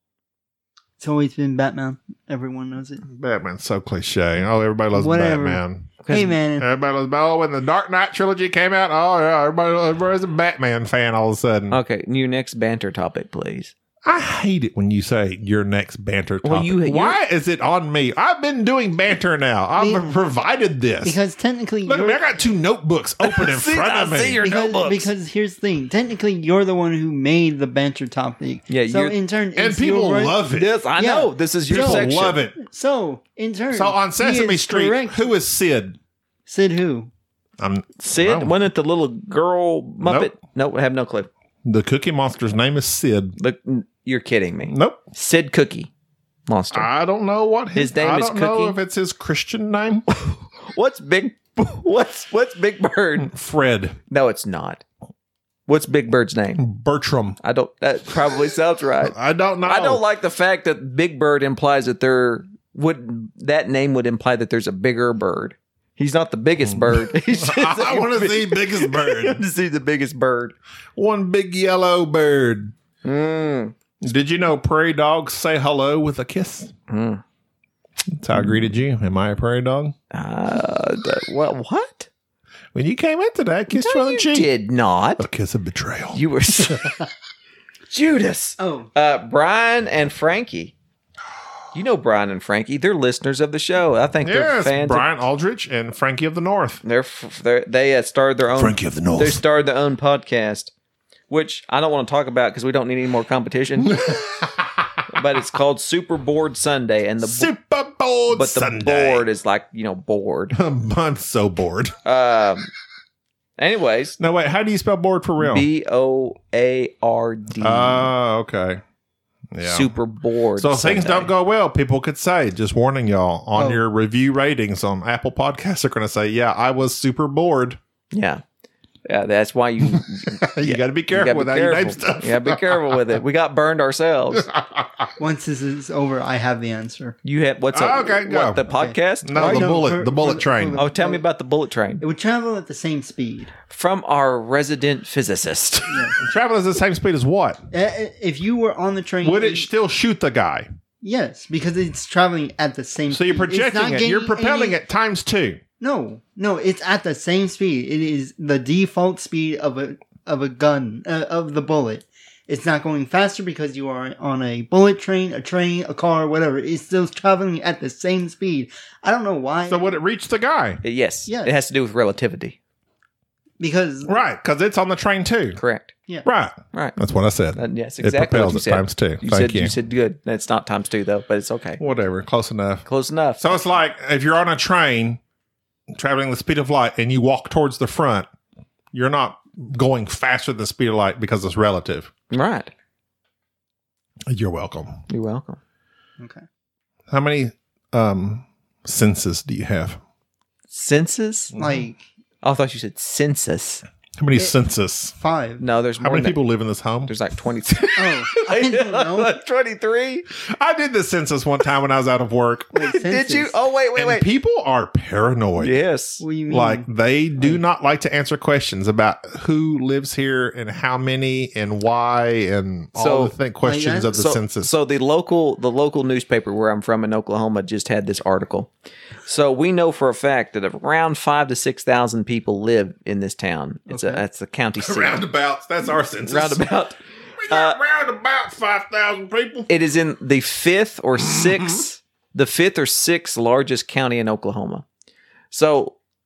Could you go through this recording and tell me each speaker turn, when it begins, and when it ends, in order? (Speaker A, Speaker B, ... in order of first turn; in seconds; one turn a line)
Speaker A: 1.0-3.0
Speaker B: 3.1-5.9
Speaker A: 5.0-6.7
Speaker C: 6.0-6.4
Speaker B: 6.6-11.8
Speaker C: 11.7-13.7
Speaker B: 14.0-21.2
Speaker C: 16.4-17.2
Speaker A: 19.8-20.0
Speaker A: 21.0-22.2
Speaker B: 21.9-24.4
Speaker C: 23.2-25.1
Speaker A: 24.4-30.4
Speaker C: 28.7-29.2
Speaker B: 29.6-30.7
Speaker C: 30.5-32.4
Speaker A: 31.0-35.4
Speaker B: 31.7-32.6
Speaker B: 33.7-36.0
Speaker A: 36.5-37.1
Speaker B: 37.6-38.5
Speaker C: 38.0-41.3
Speaker B: 40.0-40.3
Speaker B: 41.6-43.4
Speaker C: 43.4-45.9
Speaker B: 44.7-45.0
Speaker C: 46.5-46.9
Speaker B: 46.7-50.0
Speaker C: 47.8-48.8
Speaker C: 50.1-53.3
Speaker B: 53.2-54.0
Speaker C: 54.1-54.8
Speaker C: 55.7-56.6
Speaker B: 56.6-57.4
Speaker C: 57.4-70.5
Speaker B: 59.0-60.0
Speaker B: 66.7-69.4
Speaker B: 71.0-72.7
Speaker C: 73.0-73.7
Speaker B: 74.0-76.7
Speaker C: 76.9-77.2
Speaker B: 78.1-80.0
Speaker C: 80.1-82.1
Speaker B: 82.7-84.5
Speaker C: 83.7-85.2
Speaker B: 85.2-86.8
Speaker C: 86.1-87.0
Speaker C: 87.9-90.8
Speaker A: 88.6-88.9
Speaker C: 91.7-95.1
Speaker B: 94.2-96.8
Speaker C: 96.8-100.7
Speaker B: 98.6-99.4
Speaker C: 101.3-104.2
Speaker B: 103.8-104.9
Speaker C: 105.1-107.5
Speaker B: 107.2-109.3
Speaker C: 108.3-110.6
Speaker B: 110.5-112.0
Speaker C: 112.0-112.7
Speaker C: 113.6-114.2
Speaker B: 114.2-115.7
Speaker C: 115.4-118.1
Speaker B: 117.6-118.8
Speaker B: 119.5-119.9
Speaker C: 119.6-121.3
Speaker B: 120.6-127.8
Speaker A: 123.6-123.8
Speaker C: 128.1-128.4
Speaker C: 129.1-134.5
Speaker B: 129.8-133.0
Speaker B: 134.3-135.1
Speaker A: 135.2-137.2
Speaker C: 137.2-139.7
Speaker B: 137.7-138.7
Speaker A: 138.7-141.2
Speaker B: 139.2-140.8
Speaker C: 140.8-142.0
Speaker A: 142.0-143.5
Speaker C: 143.7-146.0
Speaker A: 145.9-146.2
Speaker B: 146.2-147.6
Speaker A: 147.7-149.7
Speaker B: 149.2-150.7
Speaker A: 151.0-154.8
Speaker B: 153.1-155.6
Speaker A: 155.8-170.0
Speaker B: 169.7-170.8
Speaker C: 170.8-172.6
Speaker A: 171.3-171.5
Speaker A: 173.6-174.1
Speaker B: 174.1-175.6
Speaker C: 175.6-175.9
Speaker B: 176.2-179.7
Speaker C: 177.6-181.8
Speaker B: 181.8-182.9
Speaker C: 182.9-183.5
Speaker B: 183.4-185.2
Speaker B: 185.9-188.3
Speaker B: 188.9-192.1
Speaker C: 192.3-192.7
Speaker B: 194.3-195.1
Speaker C: 195.1-195.6
Speaker B: 197.1-200.0
Speaker C: 200.7-201.6
Speaker B: 201.5-201.8
Speaker A: 201.6-202.0
Speaker C: 202.4-203.8
Speaker B: 204.2-205.1
Speaker A: 205.2-205.6
Speaker C: 205.6-206.4
Speaker B: 206.0-207.1
Speaker C: 207.1-210.3
Speaker A: 207.9-209.3
Speaker B: 210.4-212.7
Speaker A: 212.7-213.5
Speaker C: 212.9-214.3
Speaker B: 214.0-215.7
Speaker C: 215.6-216.2
Speaker A: 216.2-217.6
Speaker B: 216.5-224.7
Speaker C: 223.0-223.3
Speaker A: 223.6-224.2
Speaker C: 224.1-228.7
Speaker C: 229.2-235.2
Speaker A: 233.9-234.2
Speaker B: 234.8-236.6
Speaker C: 236.3-237.0
Speaker B: 237.4-239.7
Speaker C: 237.5-237.8
Speaker C: 239.7-244.8
Speaker B: 241.2-241.8
Speaker C: 245.5-246.0